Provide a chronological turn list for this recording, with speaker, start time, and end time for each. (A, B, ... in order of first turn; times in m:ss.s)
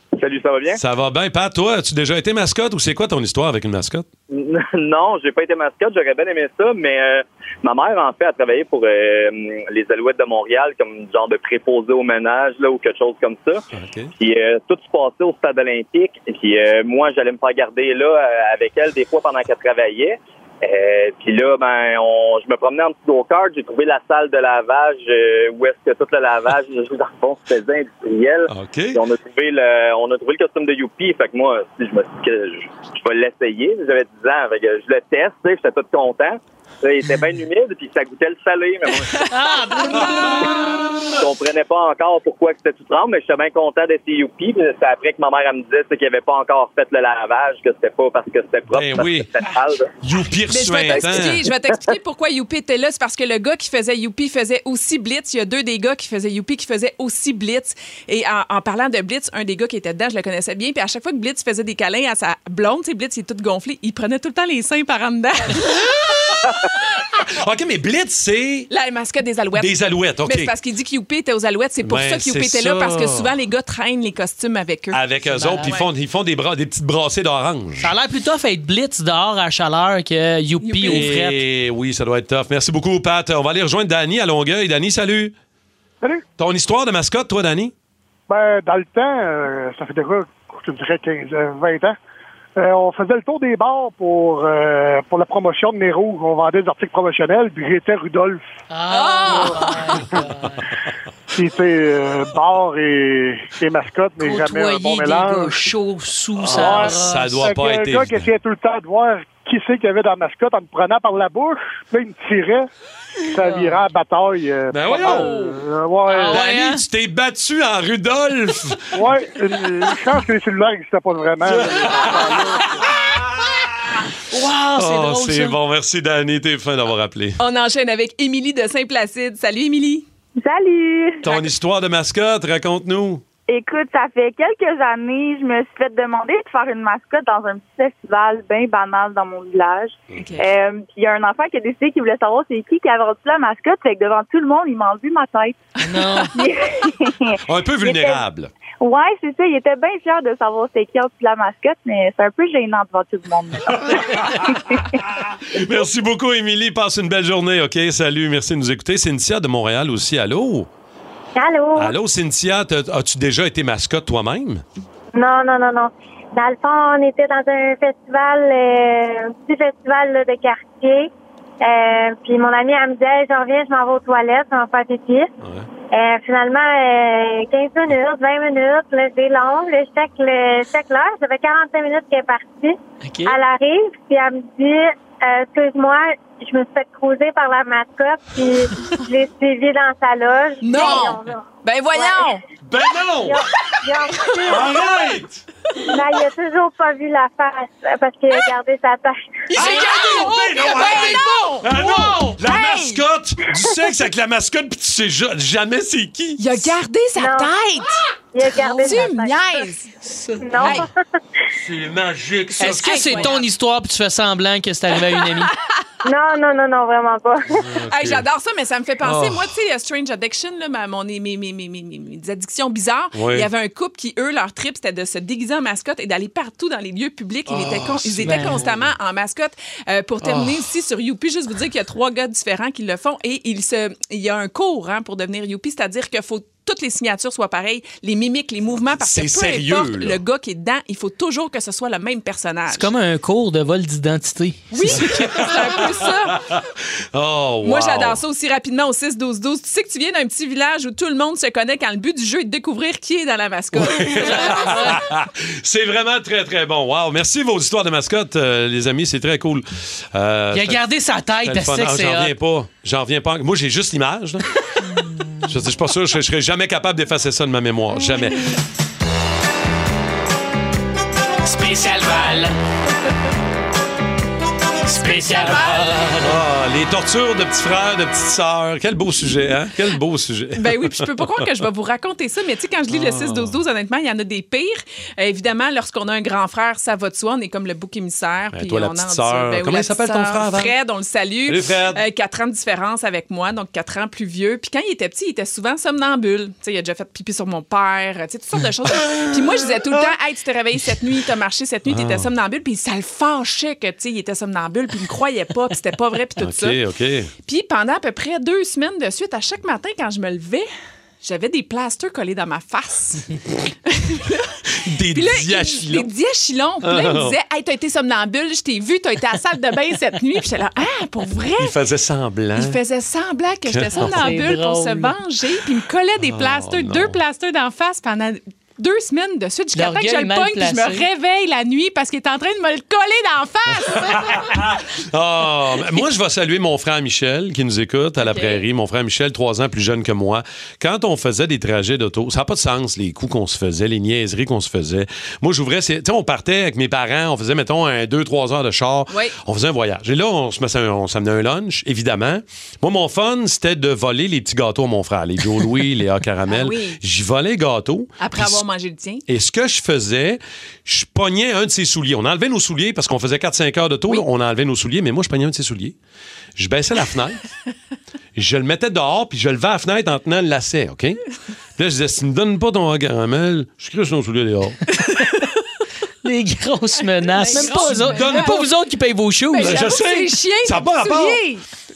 0:00.2-0:00.8 A
0:00.7-0:04.0 B
0:04.3-0:13.6 A
0:13.7-0:14.1 B
0:14.2-0:39.1 A
0:28.5-0:29.0 B
0:39.2-0:40.5 C
0:39.8-0:40.1 D
0:41.2-0:49.9 A
0:48.7-0:49.3 B
0:50.0-0:51.4 B
0:50.5-1:06.1 D
1:07.3-1:08.7 B
1:08.7-1:09.7 D
1:09.6-1:10.5 B
1:10.2-1:15.0 D
1:11.8-1:13.3 B
1:14.9-1:17.9 B
1:15.3-1:15.8 C
1:15.6-1:15.8 D
1:17.8-1:21.4 C
1:20.6-1:21.1 D
1:20.8-1:25.3 B
1:26.4-1:27.7 B
1:28.3-1:32.0 E
1:32.6-1:38.4 E
1:38.7-1:40.6 C
1:38.9-1:40.0 D
1:41.3-1:45.7 E
1:44.2-1:47.3 C
1:46.5-1:48.3 B
1:46.5-1:52.7 E
1:53.3-1:56.4 E
1:54.7-1:55.4 B
1:55.0-1:55.6 D
1:56.1-1:56.8 C
1:56.3-1:59.0 B
1:58.9-2:02.8 E
2:01.4-2:03.5 B
2:04.3-2:05.6 C
2:04.8-2:07.4 B
2:07.4-2:10.0 D
2:10.4-2:11.2 F
2:11.2-2:13.2 B
2:13.5-2:25.6 F
2:20.2-2:20.5 D
2:25.8-2:26.3 C
2:26.3-2:28.2 F
2:27.4-2:28.5 B
2:28.8-2:34.8 F
2:35.5-2:40.7 B
2:41.4-2:41.9 G
2:41.8-2:44.6 B
2:45.1-2:51.1 G
2:51.6-2:55.3 G
2:55.4-2:55.7 B
2:55.9-3:12.4 G
3:03.0-3:03.4 C
3:10.6-3:12.4 D
3:12.6-3:13.4 B
3:13.2-3:15.0 G
3:14.4-3:15.4 B
3:15.9-3:19.6 G
3:19.5-3:23.0 D
3:19.5-3:26.7 B
3:26.4-3:28.0 D
3:27.2-3:27.5 G
3:28.3-3:29.7 G
3:28.6-3:29.9 D
3:30.0-3:30.8 C
3:30.4-3:30.9 G
3:31.6-3:33.3 B
3:32.6-3:33.4 D
3:32.6-3:35.5 C
3:36.0-3:37.6 G
3:37.6-3:38.2 B
3:37.8-4:02.9 D
3:39.0-3:39.5 B
3:43.1-3:43.5 B
3:47.5-3:48.9 B
3:48.2-3:48.6 C
3:50.2-3:50.7 B
3:59.0-4:00.2 B
4:02.7-4:05.5 C
4:04.7-4:06.4 D
4:04.9-4:06.6 B
4:07.1-4:08.2 B
4:07.6-4:15.0 D
4:13.7-4:20.8 B
4:14.2-4:15.0 C
4:20.5-4:22.3 C
4:21.4-4:24.5 B
4:25.4-4:28.5 B
4:31.4-4:32.5 C
4:34.9-4:36.3 C
4:35.0-4:36.1 D
4:36.2-4:41.4 B
4:40.6-5:06.8 D
4:42.9-4:43.6 B
4:48.5-4:50.7 B
4:51.5-4:52.0 B
4:59.9-5:00.1 B
5:01.9-5:02.3 B
5:06.4-5:07.3 B
5:07.4-5:10.7 D
5:11.2-5:13.3 D
5:13.9-5:14.5 D
5:14.8-5:16.1 B
5:15.1-5:21.7 D
5:16.8-5:17.4 B
5:21.6-5:22.8 B
5:22.6-5:34.6 D
5:23.7-5:24.4 B
5:24.0-5:25.2 C
5:26.2-5:27.2 B
5:29.7-5:31.0 C
5:33.9-5:58.6 B
5:38.2-5:38.6 D
5:56.5-5:57.0 D
5:58.2-5:59.2 D
5:59.3-6:05.9 B
6:06.6-6:07.4 B
6:08.4-6:11.2 B
6:11.8-6:14.8 B
6:15.0-6:15.3 D
6:16.2-6:19.8 C
6:17.3-6:18.6 D
6:17.6-6:18.6 B
6:19.5-6:21.6 D
6:19.6-6:21.4 B